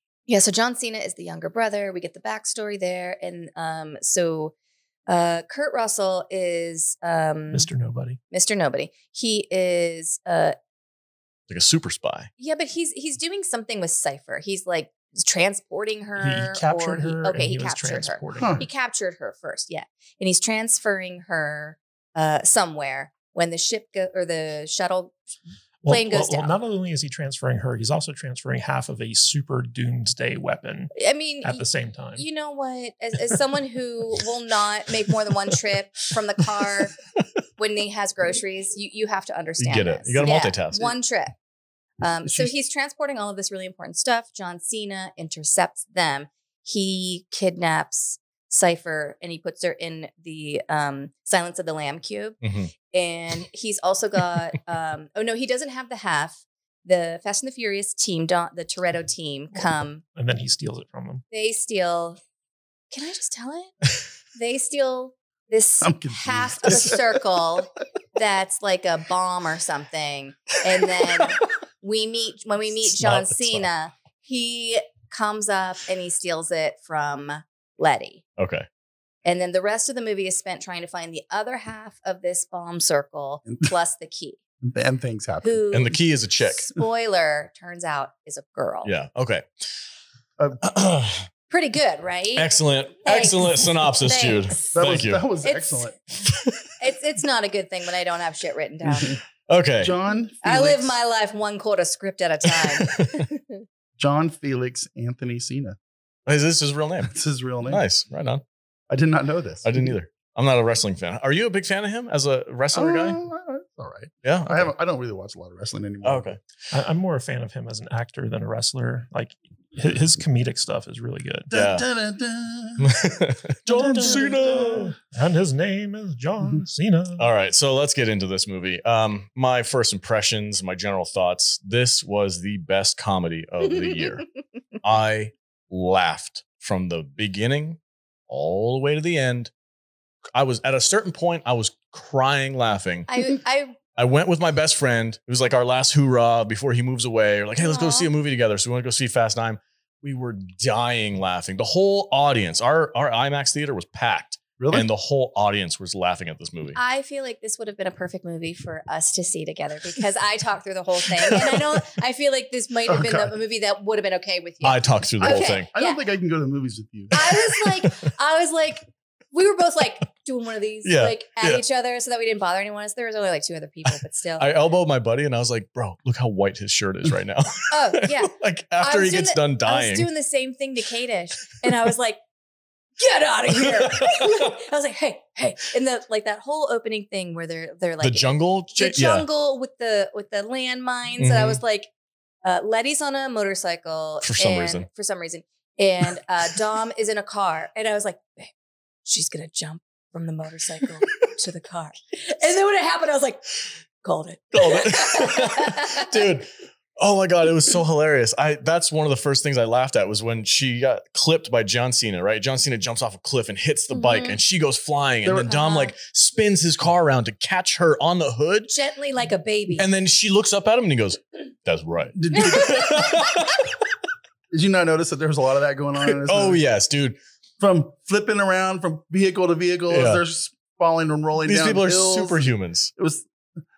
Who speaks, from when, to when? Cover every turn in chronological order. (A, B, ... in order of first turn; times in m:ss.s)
0:00.3-0:04.5 A
0:05.1-0:07.7 A
0:07.5-0:08.2 B
0:08.3-0:10.6 A
0:11.5-0:12.3 C
0:12.4-0:25.2 A
0:16.2-0:18.7 B
0:18.4-0:18.7 D
0:25.8-0:30.9 B
0:25.9-0:26.6 A
0:31.0-0:37.0 A
0:31.4-0:32.2 B
0:37.6-0:41.4 A
0:39.6-0:40.9 C
0:42.0-1:00.0 A
0:52.4-0:52.7 C
0:59.6-1:01.2 B
1:01.3-1:02.2 A
1:02.9-1:03.8 A
1:04.4-1:18.2 A
1:05.8-1:07.2 D
1:13.0-1:13.7 C
1:18.4-1:18.7 C
1:19.2-1:24.4 A
1:24.6-1:25.6 D
1:25.4-1:28.9 A
1:25.7-1:26.7 C
1:28.8-1:29.5 C
1:30.6-1:31.3 C
1:31.5-1:32.5 A
1:32.4-1:35.2 C
1:33.0-1:34.8 A
1:34.7-1:36.0 D
1:35.4-1:36.0 A
1:36.2-1:36.7 C
1:36.8-1:39.2 A
1:38.9-1:39.2 D
1:39.5-1:40.0 C
1:39.8-1:40.9 D
1:40.4-1:43.6 A
1:42.5-1:43.3 C
1:44.0-1:45.8 D
1:46.3-1:47.1 C
1:47.1-1:47.8 D
1:47.6-1:48.4 C
1:48.9-1:50.0 D
1:49.6-1:53.2 C
1:52.7-1:56.4 D
1:54.2-1:54.7 C
1:56.0-1:56.4 C
1:56.7-2:01.5 B
2:01.5-2:03.0 D
2:01.5-2:01.8 C
2:02.8-2:04.9 C
2:03.7-2:04.9 D
2:03.7-2:07.3 B
2:07.2-2:14.2 C
2:14.8-2:17.8 C
2:18.3-2:19.5 C
2:20.4-2:23.1 C
2:23.1-2:23.8 A
2:24.0-2:36.8 C
2:27.6-2:28.1 A
2:34.6-2:34.9 D
2:36.8-2:46.0 A
2:41.2-2:41.6 C
2:42.9-2:43.3 D
2:44.6-2:45.7 C
2:45.7-2:47.2 D
2:47.1-2:54.5 A
2:50.8-2:51.6 C
2:53.9-3:00.1 C
2:57.7-3:02.2 A
3:03.0-3:11.9 A
3:03.8-3:04.4 C
3:08.0-3:09.2 C
3:11.2-3:11.6 C
3:12.4-3:18.5 A
3:14.2-3:14.9 C
3:19.1-3:26.2 A
3:24.5-3:38.7 C
3:33.9-3:34.4 A
3:35.2-3:35.6 D
3:35.5-3:35.9 A
3:38.7-3:39.9 A
3:39.8-3:43.7 C
3:42.2-3:43.0 D
3:42.4-3:43.3 A
3:44.5-3:46.6 D
3:46.1-3:47.2 C
3:47.6-3:53.3 D
3:49.9-3:50.2 C
3:51.4-3:52.9 C